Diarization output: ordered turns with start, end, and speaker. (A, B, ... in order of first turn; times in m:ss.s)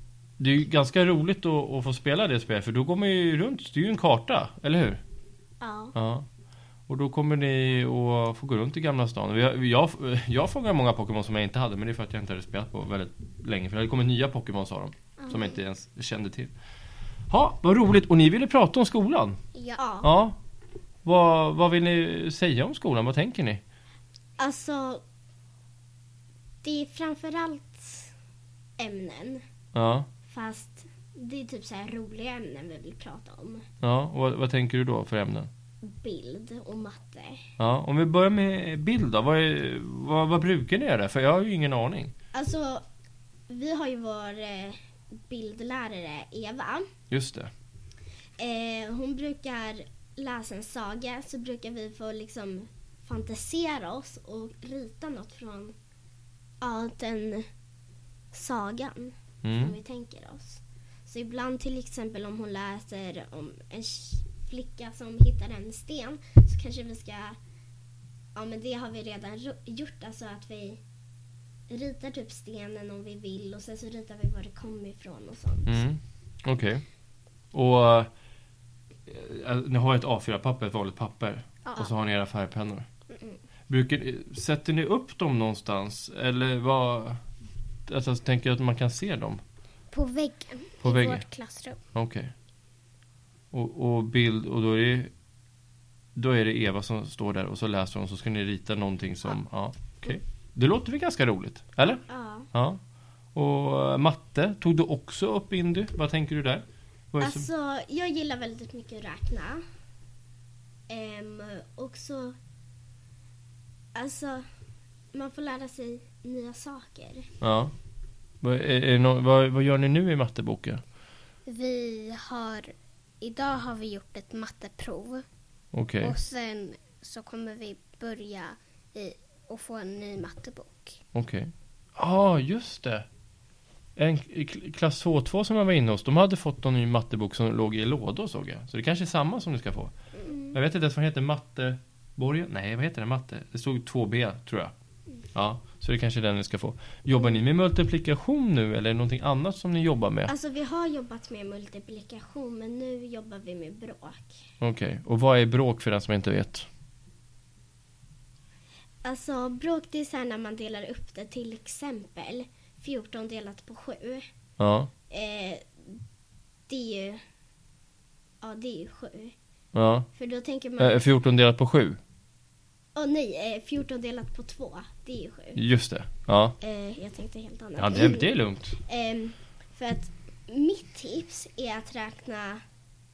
0:00.4-0:05.0 A
0:05.6-0:06.0 B
0:06.0-0:06.3 A
0:06.9-0:16.5 A
0:17.3-0:19.4 A
0:19.5-0:19.8 C
0:19.8-0:20.1 B
0:20.0-0:20.4 A
0:21.0-0:23.6 A
0:24.4-0:25.0 B
0:26.6-0:28.1 B
0:28.8-0:29.4 B
0:29.7-0:30.1 A
0:30.3-0:33.7 B
0:33.8-0:35.5 A
0:35.8-0:37.5 B
0:37.6-0:42.1 A
0:42.3-0:42.8 B
0:43.5-0:46.9 B
0:47.1-0:47.5 A
0:48.4-0:55.8 B
0:56.6-0:57.5 B
0:58.3-1:07.4 B
0:59.4-0:59.8 A
1:08.4-1:10.8 B
1:11.7-1:15.8 B
1:15.7-1:16.8 A
1:17.5-1:18.1 A
1:19.1-1:22.9 A
1:23.7-1:27.2 A
1:27.9-1:29.4 A
1:29.9-1:31.8 C
1:30.8-1:31.3 A
1:31.9-1:32.3 A
1:33.5-1:35.1 A
1:36.2-1:42.8 A
1:41.8-1:42.5 B
1:43.4-1:47.5 A
1:47.2-1:49.6 B
1:50.9-1:52.4 B
1:54.0-1:54.4 B
1:55.1-1:57.3 B
1:57.4-1:57.7 A
1:58.4-2:00.8 A
2:01.5-2:05.2 C
2:05.7-2:06.2 A
2:06.0-2:11.0 C
2:11.1-2:13.1 A
2:14.0-2:19.9 A
2:20.3-2:20.6 B
2:20.5-2:24.7 A
2:25.3-2:30.3 A
2:30.3-2:34.4 B
2:34.6-2:36.7 A
2:39.0-2:44.2 B
2:44.6-2:44.9 A
2:45.1-2:46.0 B
2:46.7-2:47.2 B
2:48.4-2:49.4 B
2:49.7-2:50.1 A
2:50.2-2:51.0 B
2:50.8-2:52.0 A
2:53.0-2:55.6 B
2:55.6-2:56.6 A
2:56.6-2:58.3 B
2:57.8-2:58.8 A
2:58.8-3:02.6 B